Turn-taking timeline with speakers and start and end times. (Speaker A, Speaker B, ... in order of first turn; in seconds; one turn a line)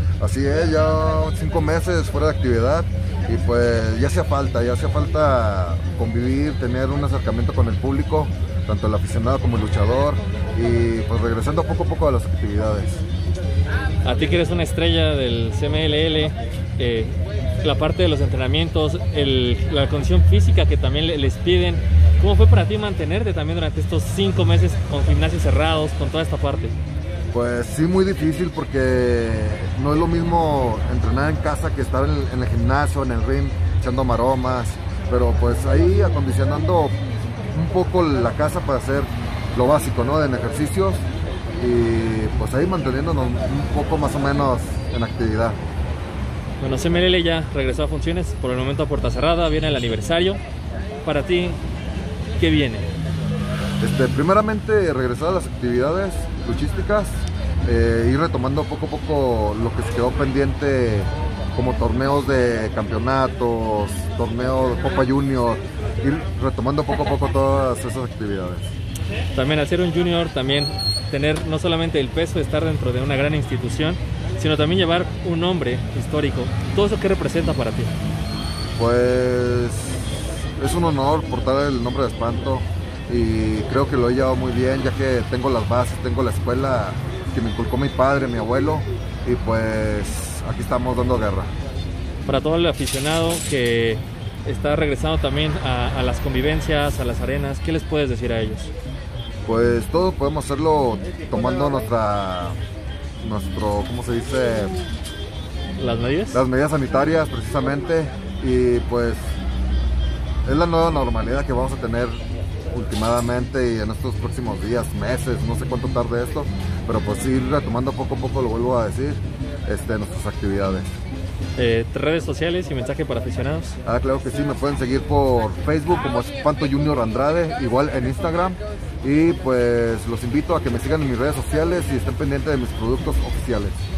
Speaker A: 0.2-13.0
Speaker B: 14.0-26.7
Speaker A: 27.3-36.9
Speaker A: 37.5-41.0
Speaker A: 41.5-45.5
Speaker B: 46.6-50.4
Speaker B: 51.0-51.6
Speaker B: 52.4-52.9
Speaker A: 53.8-68.7
Speaker B: 69.3-77.9
Speaker A: 78.8-91.5
Speaker B: 92.2-98.7
Speaker A: 99.5-102.5
Speaker A: 103.2-104.8
Speaker B: 105.8-106.4
Speaker A: 106.3-109.2
Speaker A: 110.4-112.2
Speaker A: 112.7-121.0
Speaker B: 121.5-123.8
Speaker A: 123.8-133.8